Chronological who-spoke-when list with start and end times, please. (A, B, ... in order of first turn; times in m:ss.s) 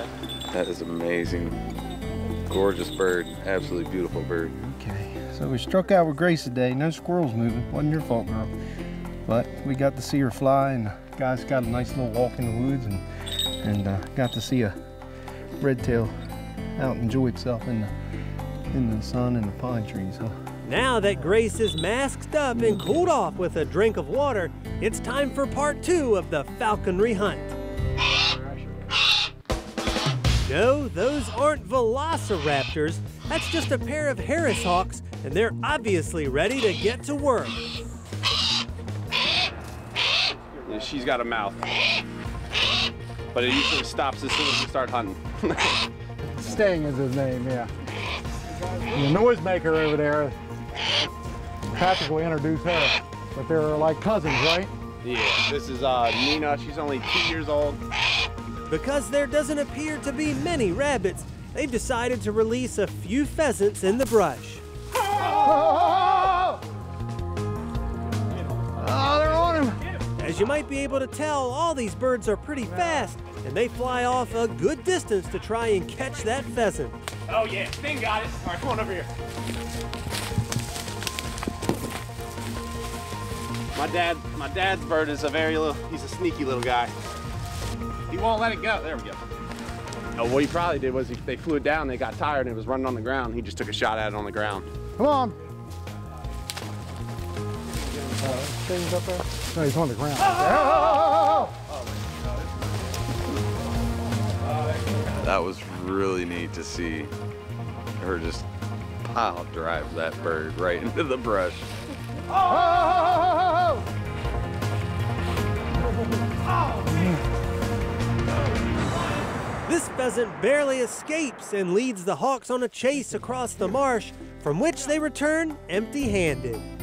0:00.5-0:01.6 A
0:02.5-0:04.5 A
0:04.5-0:08.5 B
0:09.2-0:13.0 B
0:13.6-0:14.7 B
0:15.6-0:16.1 B
0:16.8-0:17.9 B
0:18.7-0:20.3 B
0:20.6-0:27.6 C
0:30.4-0:37.6 C
0:40.6-0:41.7 D
0:43.3-0:45.8 D
0:46.3-0:47.7 E
0:48.8-0:50.4 E
0:51.7-0:54.7 E
0:55.0-0:57.8 D
0:58.7-1:04.6 C
1:05.6-1:06.3 B
1:08.8-1:09.7 B
1:10.2-1:17.0 C
1:17.3-1:19.1 D
1:23.7-1:26.9 D
1:28.1-1:29.2 D
1:30.2-1:34.7 D
1:35.0-1:35.4 E
1:38.2-1:41.4 E
1:40.3-1:40.8 D
1:45.0-1:47.1 A
1:48.0-1:48.5 A
1:49.1-1:51.7 A
1:59.6-2:06.7 C